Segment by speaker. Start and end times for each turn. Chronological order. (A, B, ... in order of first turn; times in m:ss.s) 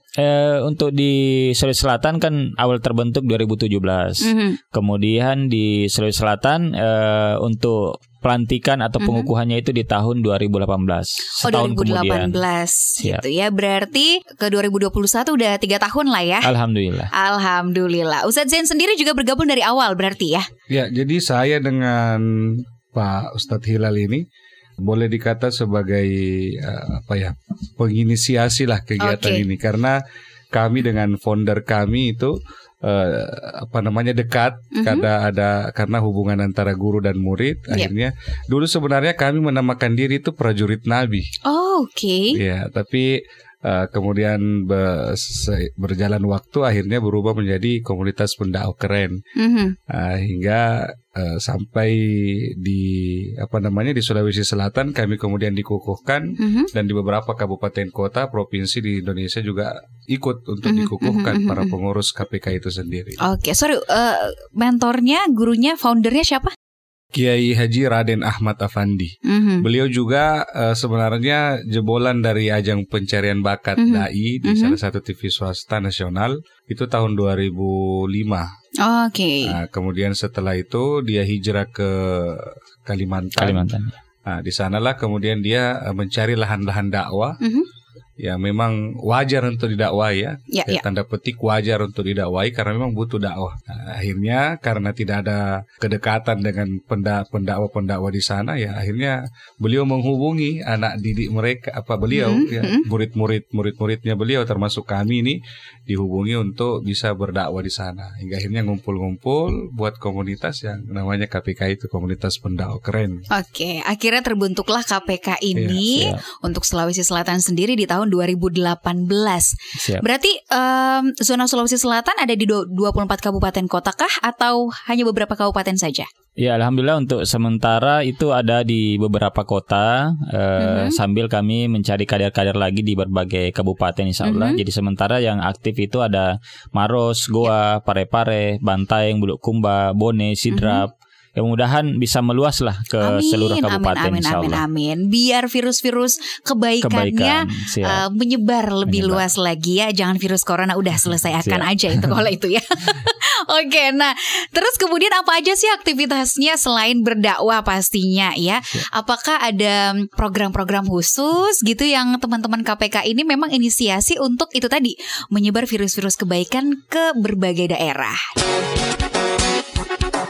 0:00.2-0:12.4 A
0:04.2-0:04.6 B
0:09.0-0:09.3 B
0:11.4-0:16.5 B
0:16.4-0:17.1 A
0:17.1-0:20.5 B
0:20.7-0:24.2 C
0:24.8-0:30.0 C
0:29.0-0:29.4 B
0:30.5-0:41.3 C
0:34.7-0:35.1 B
0:41.4-0:42.4 B
0:42.3-0:49.2 C
0:49.4-0:49.8 B
0:49.9-1:03.2 C
0:56.4-0:56.7 B
1:00.7-1:01.7 B
1:03.2-1:06.5 B
1:07.1-1:18.5 C
1:09.2-1:09.7 B
1:13.8-1:14.8 B
1:18.8-1:19.5 B
1:19.5-1:23.7 C
1:23.4-1:23.9 A
1:24.3-1:27.4 C
1:27.4-1:27.7 B
1:28.2-1:53.2 C
1:30.5-1:30.8 B
1:42.1-1:42.9 B
1:53.3-2:06.1 B
1:55.6-1:55.9 C
1:55.9-1:56.2 A
1:59.8-2:00.0 A
2:06.4-2:24.6 A
2:10.6-2:11.0 B
2:14.2-2:14.6 B
2:20.5-2:20.8 B
2:23.0-2:48.2 B
2:26.8-2:28.0 A
2:28.9-2:29.2 A
2:31.4-2:32.2 A